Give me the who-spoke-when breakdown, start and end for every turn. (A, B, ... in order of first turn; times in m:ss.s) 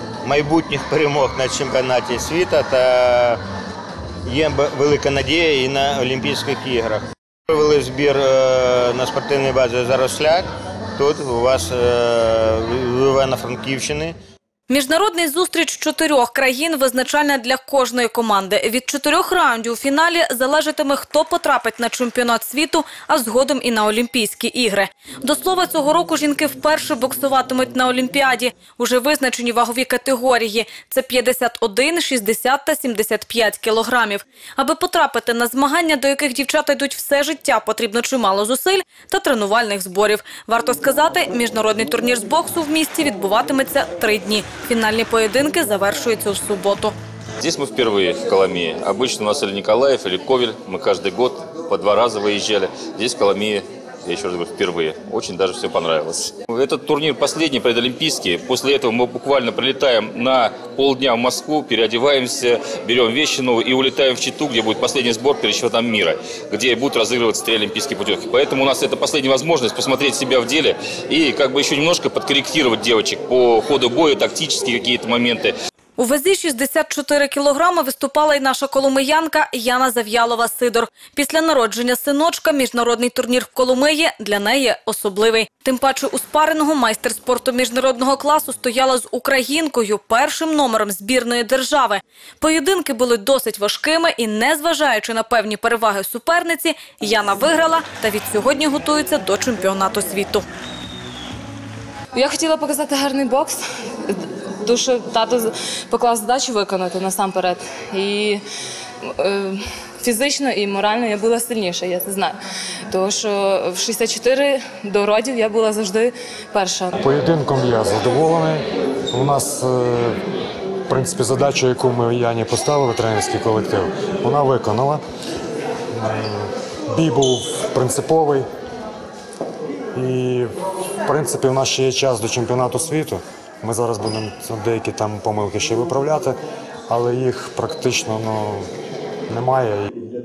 0:00.2-0:03.4 A
0:04.3-0:10.5 A
0:11.0-0:14.2 A
0:14.7-0:47.0 B
0:47.4-1:15.6 C
1:16.0-1:40.4 B
1:42.1-1:48.4 D
1:49.0-1:52.4 D
1:52.9-1:57.0 D
1:57.0-2:00.2 E
2:00.9-2:05.0 E
2:05.9-2:08.5 E
2:09.9-2:10.5 E
2:11.0-2:16.4 E
2:16.9-2:18.7 E
2:19.3-2:19.9 E